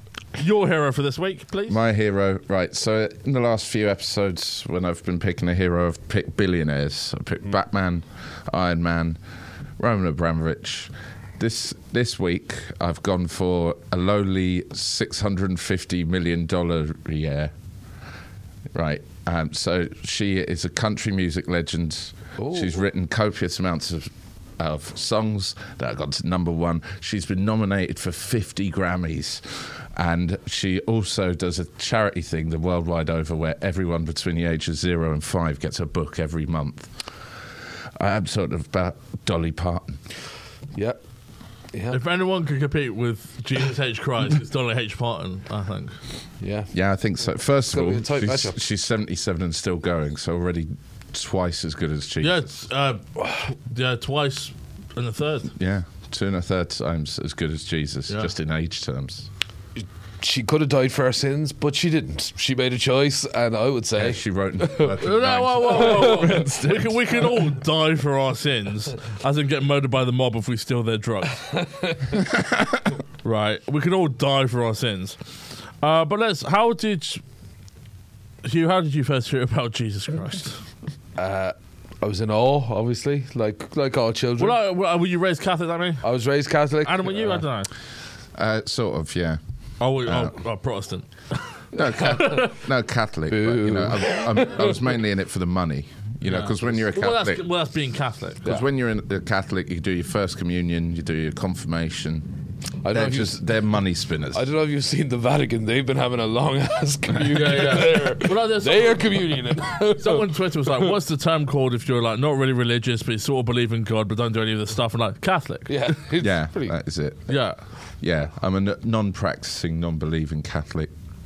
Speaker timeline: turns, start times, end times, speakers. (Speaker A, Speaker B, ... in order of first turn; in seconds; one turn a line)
Speaker A: 0.3-1.8
Speaker B: 1.7-9.2
Speaker B: 9.8-17.5
Speaker B: 18.7-36.9
Speaker C: 22.4-22.8
Speaker B: 38.0-40.0
Speaker C: 41.7-42.0
Speaker A: 41.9-46.0
Speaker C: 46.4-46.7
Speaker B: 46.7-52.4
Speaker C: 47.7-48.6
Speaker A: 52.2-55.5
Speaker B: 55.6-59.3
Speaker C: 59.8-65.0
Speaker B: 64.0-66.5
Speaker A: 65.0-71.5
Speaker C: 65.6-67.0
Speaker C: 71.5-72.2
Speaker A: 73.2-75.2
Speaker A: 75.8-77.2
Speaker A: 78.4-80.6
Speaker C: 81.2-84.6
Speaker A: 84.4-86.0
Speaker C: 86.0-87.4
Speaker A: 86.8-87.7
Speaker B: 88.3-89.4
Speaker A: 89.8-92.5
Speaker B: 90.0-90.3
Speaker B: 91.7-97.4
Speaker C: 93.3-94.7
Speaker A: 96.2-98.4
Speaker B: 98.4-102.3
Speaker C: 102.8-103.4
Speaker B: 102.9-104.4
Speaker C: 104.3-110.9
Speaker A: 107.3-115.9
Speaker C: 115.7-116.8
Speaker B: 116.2-117.4
Speaker A: 117.3-117.6
Speaker B: 118.0-120.9